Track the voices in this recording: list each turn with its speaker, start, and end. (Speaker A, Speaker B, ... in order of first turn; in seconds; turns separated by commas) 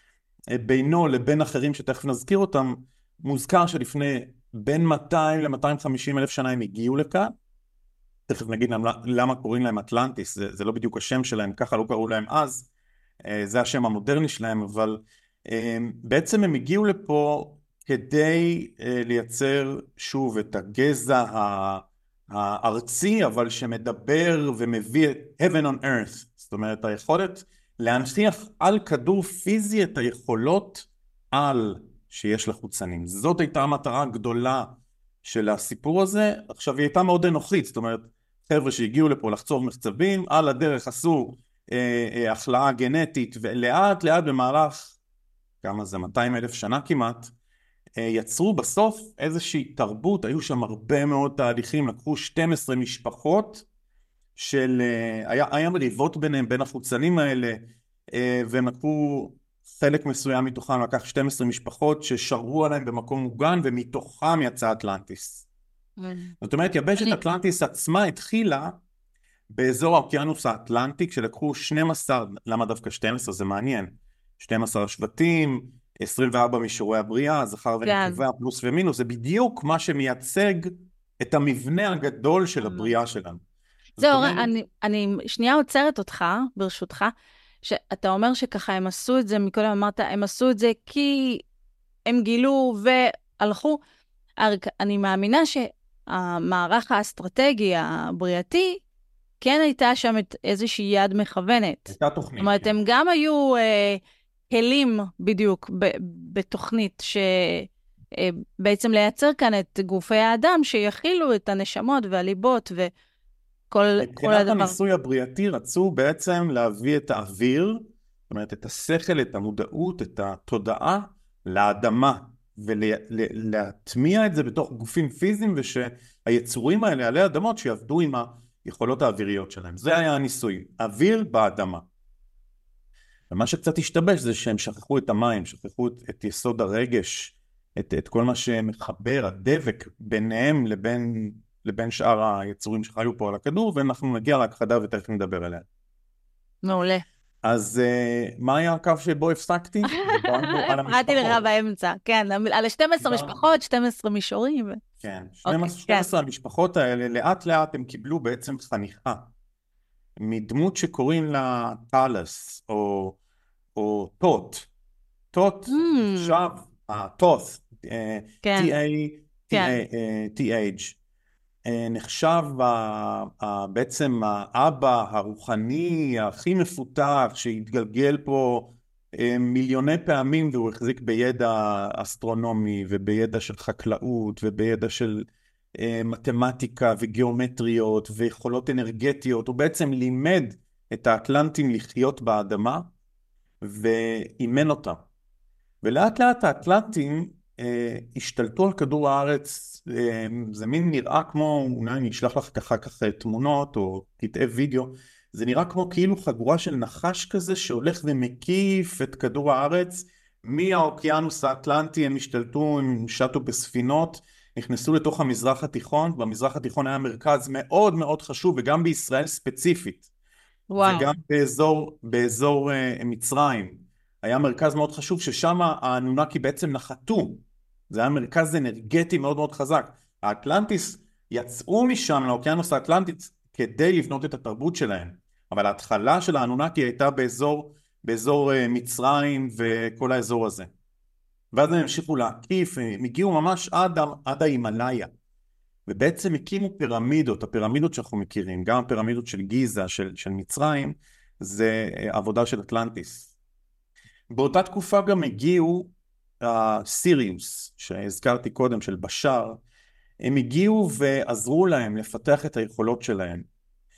Speaker A: 0.5-7.3, Speaker A: 8.3-12.7, Speaker A: 13.2-45.0, Speaker A: 45.6-47.3, Speaker A: 48.0-53.7, Speaker A: 54.4-65.5, Speaker B: 66.0-66.3, Speaker A: 66.4-68.8, Speaker A: 69.5-83.4, Speaker B: 77.8-78.2, Speaker B: 82.6-82.9, Speaker A: 84.0-84.5, Speaker B: 84.0-91.5, Speaker B: 92.1-93.8, Speaker B: 94.4-98.8, Speaker B: 99.4-112.9, Speaker A: 101.9-102.7, Speaker B: 113.7-114.8, Speaker A: 114.0-131.8, Speaker A: 133.3-145.7, Speaker B: 146.6-147.0, Speaker A: 147.4-151.4, Speaker B: 149.9-154.8, Speaker A: 153.0-153.4, Speaker A: 155.0-159.3, Speaker B: 155.4-156.1, Speaker A: 160.2-163.2, Speaker A: 163.8-164.7, Speaker A: 165.3-171.0, Speaker B: 165.7-166.4, Speaker B: 168.4-168.7, Speaker B: 169.5-169.8, Speaker A: 171.7-192.9, Speaker A: 193.6-195.0, Speaker A: 195.8-220.1, Speaker B: 220.7-221.1, Speaker A: 220.8-240.7, Speaker A: 241.5-245.1, Speaker A: 245.9-253.3, Speaker A: 254.3-259.6, Speaker A: 260.2-263.5